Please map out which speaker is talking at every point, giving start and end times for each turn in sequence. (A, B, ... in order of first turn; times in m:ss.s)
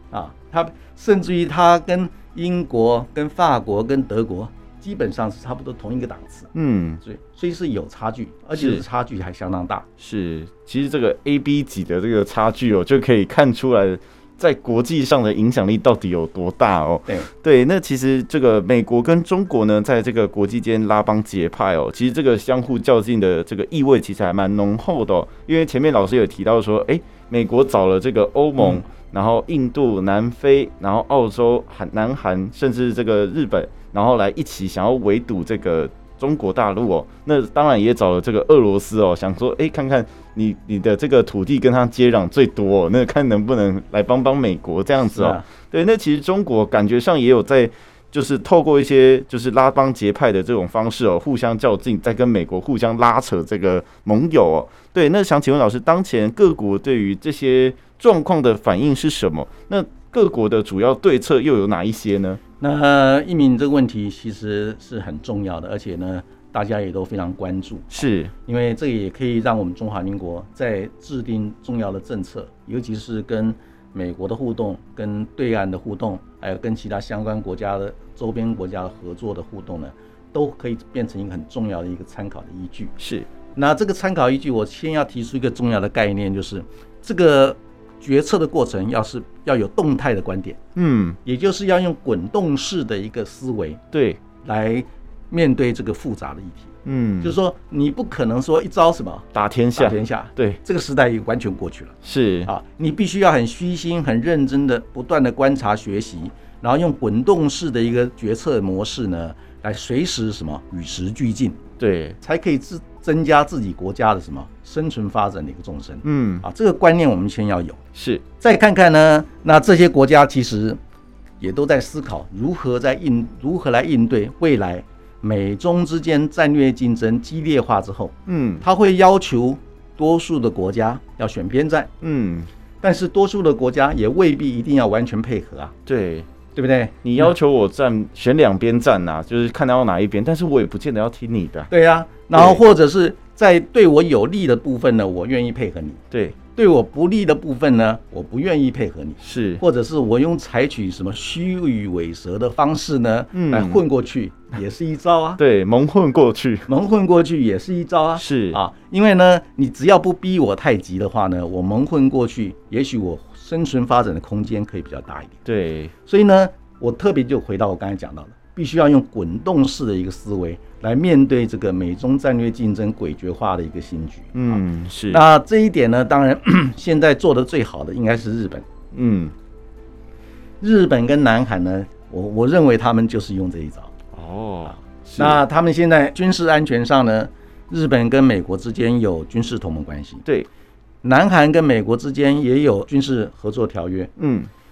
0:00.1-0:06.5 A
0:06.5-0:07.0 B
0:07.0-0:09.8 A
0:08.5-0:08.8 B
0:10.0-1:02.4 B
0:45.0-0:45.4 A
1:02.6-1:22.9 A
1:07.9-1:08.3 B
1:23.0-1:23.3 B
1:23.5-1:30.6 A
1:30.7-1:31.2 B
1:31.2-1:33.8 A
1:33.9-1:34.2 B
1:34.4-1:51.6 A
1:36.8-1:37.4 B
1:39.3-1:40.6 B
1:42.0-1:42.5 B
1:51.8-1:52.2 B
1:52.2-1:57.8 A
1:56.0-1:56.4 B
1:57.9-1:58.2 B
1:58.4-2:00.8 A
2:01.4-2:11.9 A
2:08.3-2:08.6 B
2:12.0-2:12.5 B
2:12.8-2:15.7 A
2:15.8-2:16.3 B
2:16.5-2:17.3 A
2:17.0-2:21.7 B
2:21.7-2:35.4 A
2:22.3-2:22.6 B
2:26.1-2:26.4 B
2:29.2-2:29.6 B
2:33.3-2:33.8 B
2:35.4-2:36.7 B
2:36.7-2:45.4 A
2:38.2-2:38.6 B
2:45.4-2:45.9 B
2:46.0-2:58.6 A
2:54.3-2:55.2 B
2:58.9-2:59.3 B
3:00.6-3:03.9 A
3:04.1-3:05.4 B
3:05.2-3:10.2 A
3:11.0-3:14.1 A
3:14.2-3:14.5 B